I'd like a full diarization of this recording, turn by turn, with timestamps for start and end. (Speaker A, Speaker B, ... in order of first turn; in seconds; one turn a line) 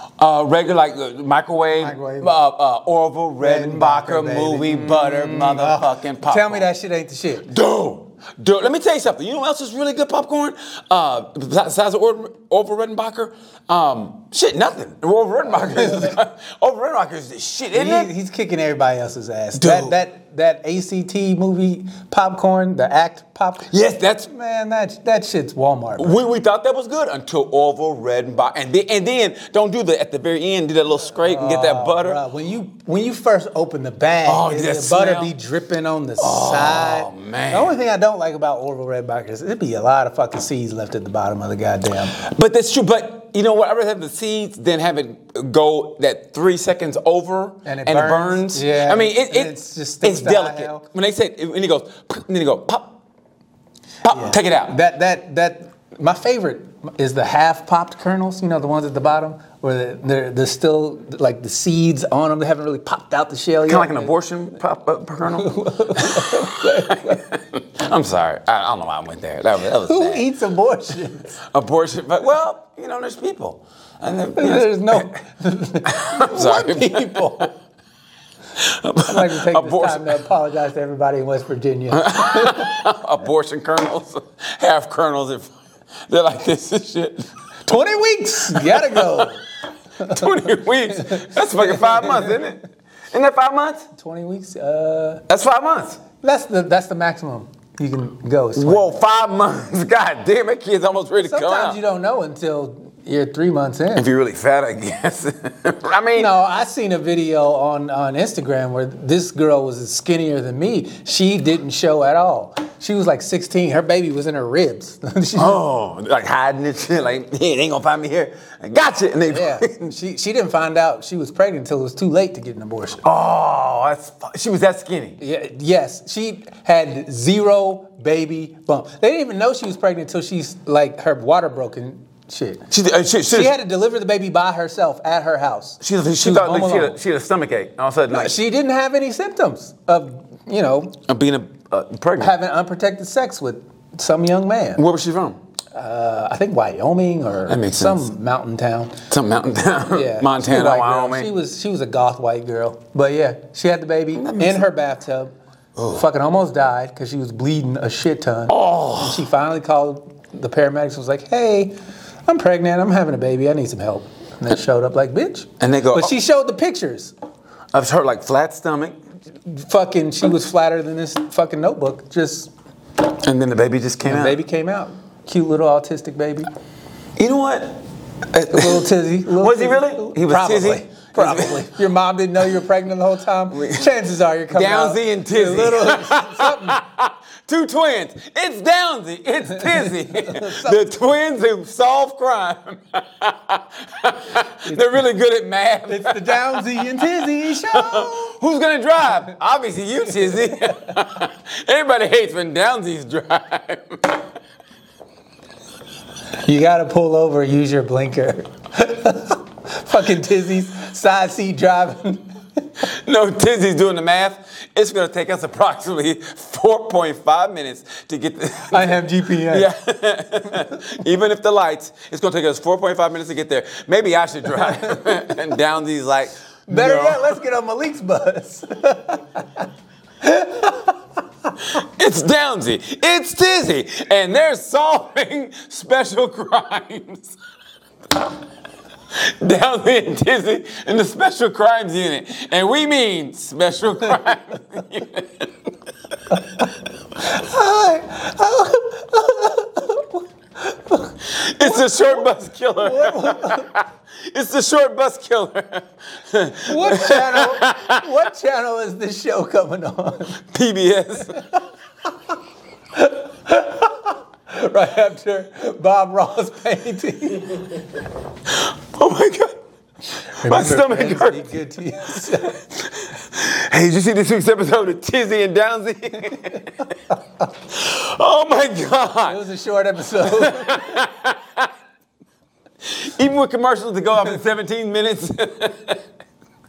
Speaker A: 0.2-6.7
Speaker B: 1.7-2.3
Speaker B: 3.4-7.5
Speaker A: 7.5-18.1
Speaker B: 15.7-16.1
Speaker B: 17.7-23.8
Speaker A: 19.6-19.9
Speaker A: 23.7-24.3
Speaker B: 24.3-26.2
Speaker A: 26.0-32.2
Speaker B: 31.2-42.2
Speaker A: 34.2-35.3
Speaker A: 36.2-37.7
Speaker A: 42.2-53.0
Speaker B: 47.6-50.8
Speaker A: 54.0-54.7
Speaker B: 54.1-64.1
Speaker A: 63.7-70.2
Speaker B: 65.3-67.2
Speaker B: 69.8-71.4
Speaker A: 71.5-75.2
Speaker B: 74.3-77.5
Speaker A: 75.8-77.5
Speaker A: 78.6-80.2
Speaker B: 79.0-82.8
Speaker A: 81.9-85.5
Speaker A: 86.1-87.3
Speaker B: 87.7-89.4
Speaker A: 88.5-89.3
Speaker B: 90.0-92.5
Speaker A: 90.0-93.9
Speaker B: 93.9-95.2
Speaker A: 95.3-96.0
Speaker B: 96.2-99.0
Speaker A: 98.5-101.8
Speaker B: 101.2-104.1
Speaker A: 103.9-106.3
Speaker B: 106.2-115.6
Speaker A: 115.3-119.8
Speaker B: 119.3-123.0
Speaker A: 123.0-125.2
Speaker B: 125.2-132.7
Speaker A: 132.7-133.5
Speaker B: 133.3-137.0
Speaker A: 135.8-138.3
Speaker B: 138.1-141.0
Speaker A: 141.1-142.3
Speaker B: 142.2-144.8
Speaker A: 144.8-145.4
Speaker B: 145.7-149.0
Speaker A: 147.5-148.1
Speaker A: 149.1-151.3
Speaker B: 149.9-155.3
Speaker A: 154.1-154.6
Speaker A: 155.8-156.0
Speaker B: 155.9-167.1
Speaker A: 158.5-159.2
Speaker A: 165.6-166.1
Speaker A: 167.7-169.0
Speaker B: 169.5-172.5
Speaker A: 173.1-174.4
Speaker B: 174.0-176.5
Speaker A: 177.2-177.8
Speaker A: 178.3-181.6
Speaker B: 178.5-186.8
Speaker A: 183.5-183.9
Speaker A: 184.5-204.2
Speaker B: 189.6-191.0
Speaker B: 195.9-198.3
Speaker B: 206.4-212.6
Speaker A: 212.8-227.3
Speaker B: 218.7-219.7
Speaker B: 226.7-229.7
Speaker B: 230.2-231.0
Speaker A: 231.7-237.4
Speaker A: 239.1-245.5
Speaker B: 246.3-253.7
Speaker A: 251.2-258.1
Speaker B: 256.6-260.4
Speaker A: 260.4-261.4
Speaker B: 261.3-261.6
Speaker B: 262.9-267.8
Speaker A: 268.5-269.6
Speaker B: 270.4-272.6
Speaker A: 270.4-271.5
Speaker A: 272.2-276.9
Speaker A: 277.7-279.4
Speaker B: 279.2-280.9
Speaker A: 280.2-281.7
Speaker A: 282.8-286.0